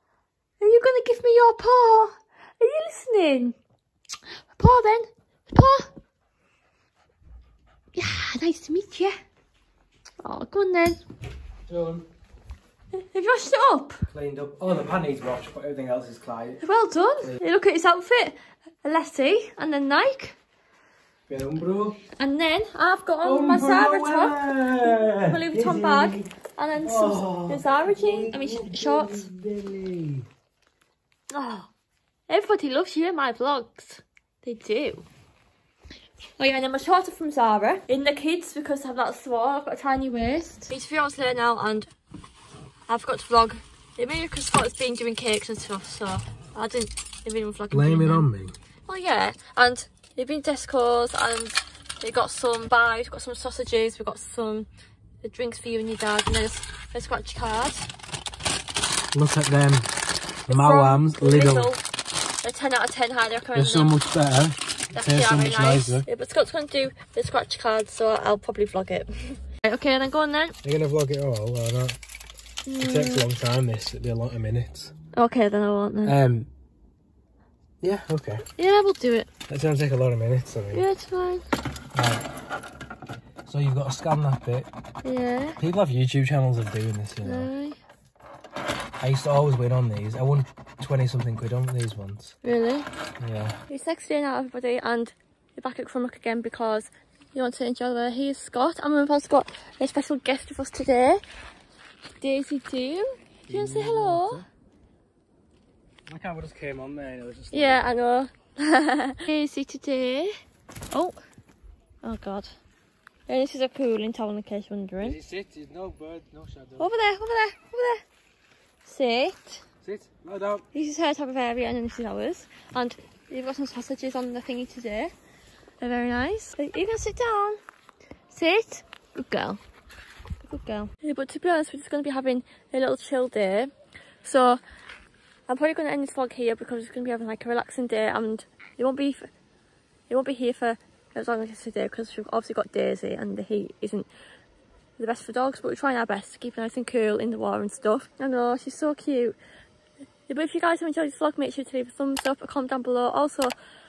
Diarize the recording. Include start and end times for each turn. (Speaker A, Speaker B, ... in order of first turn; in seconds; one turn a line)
Speaker A: 0.6-3.5
Speaker A: 4.6-5.9
Speaker A: 8.0-9.2
Speaker A: 10.2-11.0
Speaker B: 11.7-12.1
Speaker A: 12.9-14.0
Speaker B: 14.1-16.6
Speaker A: 16.6-20.4
Speaker B: 21.3-22.0
Speaker A: 22.2-29.3
Speaker B: 23.2-26.3
Speaker B: 26.8-30.3
Speaker A: 31.3-31.7
Speaker A: 32.3-35.0
Speaker A: 36.4-41.9
Speaker A: 42.9-48.3
Speaker B: 47.7-48.6
Speaker A: 48.9-54.7
Speaker A: 55.2-57.9
Speaker B: 59.1-59.9
Speaker B: 60.5-61.7
Speaker A: 60.5-61.8
Speaker A: 62.4-64.0
Speaker B: 63.5-66.1
Speaker A: 64.9-70.6
Speaker B: 70.6-72.0
Speaker A: 72.7-73.3
Speaker B: 72.8-74.9
Speaker A: 75.2-76.2
Speaker B: 76.0-76.5
Speaker B: 77.8-78.5
Speaker A: 78.6-79.3
Speaker B: 79.5-80.9
Speaker A: 80.7-81.5
Speaker B: 81.9-82.2
Speaker B: 83.5-84.7
Speaker A: 85.0-85.6
Speaker B: 85.6-87.5
Speaker A: 87.2-87.8
Speaker B: 89.0-92.4
Speaker A: 92.4-92.9
Speaker B: 93.2-93.6
Speaker A: 93.7-101.2
Speaker A: 102.2-104.4
Speaker B: 103.5-104.5
Speaker B: 106.1-107.8
Speaker A: 107.5-110.4
Speaker A: 110.9-111.2
Speaker A: 112.0-112.6
Speaker A: 113.3-115.2
Speaker B: 115.0-116.9
Speaker A: 116.8-118.0
Speaker A: 118.8-119.6
Speaker B: 119.8-120.7
Speaker A: 120.7-125.1
Speaker A: 125.8-127.6
Speaker A: 128.3-129.6
Speaker A: 130.4-133.7
Speaker A: 134.2-134.6
Speaker A: 135.5-139.3
Speaker A: 140.1-144.1
Speaker A: 145.0-149.4
Speaker A: 150.3-153.6